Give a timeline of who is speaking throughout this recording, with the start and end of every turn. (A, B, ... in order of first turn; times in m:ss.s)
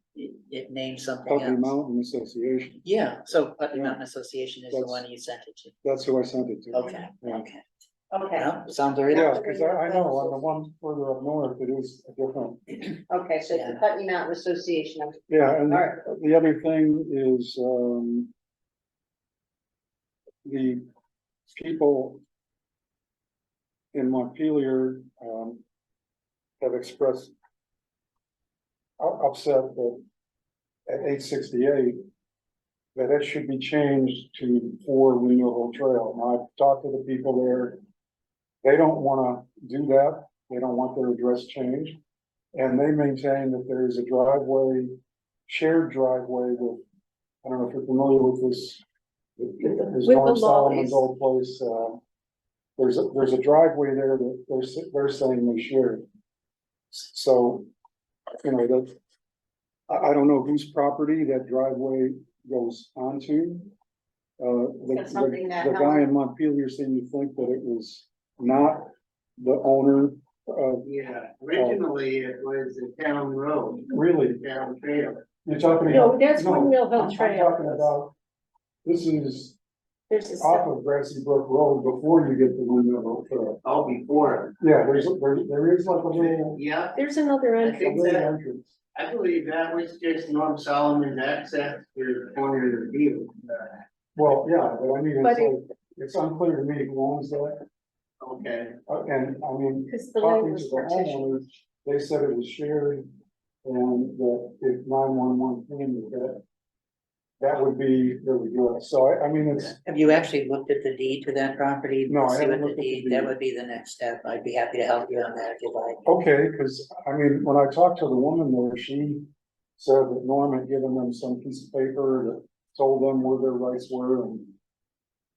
0:00.2-0:01.8 A
0:01.2-0:02.8 B
0:02.8-0:05.8 A
0:03.7-0:04.0 B
0:04.7-0:05.0 B
0:05.8-0:07.5 B
0:06.7-0:07.6 A
0:08.1-0:08.5 C
0:08.3-0:10.1 A
0:09.1-0:12.9 B
0:09.2-0:09.4 C
0:13.1-0:16.0 C
0:13.5-0:13.8 A
0:15.3-0:18.3 B
0:20.4-0:20.8 B
0:21.5-0:22.2 B
0:23.9-0:25.6 B
0:26.6-0:27.3 B
0:29.0-0:30.0 B
0:30.9-0:32.0 B
0:33.0-0:37.8 B
0:38.6-0:42.0 B
0:42.6-0:45.0 B
0:45.5-0:46.8 B
0:47.4-0:48.8 B
0:49.4-0:52.0 B
0:50.0-0:51.0 D
0:52.8-0:56.0 B
0:56.9-0:57.7 B
0:58.4-0:59.0 B
0:59.9-1:03.7 B
1:04.4-1:10.9 B
1:04.9-1:06.0 C
1:10.8-1:15.2 E
1:11.5-1:11.8 B
1:13.9-1:14.4 B
1:15.4-1:18.1 B
1:15.9-1:17.9 D
1:18.8-1:19.6 B
1:20.1-1:20.7 D
1:20.4-1:23.6 B
1:23.6-1:24.6 E
1:24.6-1:26.6 B
1:26.1-1:27.0 E
1:27.0-1:28.1 D
1:27.6-1:28.3 E
1:27.8-1:28.8 B
1:29.0-1:33.8 E
1:34.2-1:37.7 B
1:35.2-1:35.6 D
1:38.2-1:38.8 E
1:38.9-1:43.1 B
1:39.9-1:41.5 D
1:43.6-1:46.4 B
1:47.4-1:49.8 B
1:49.8-1:56.0 A
1:52.1-1:53.4 B
1:56.1-1:59.3 B
1:59.8-2:04.5 B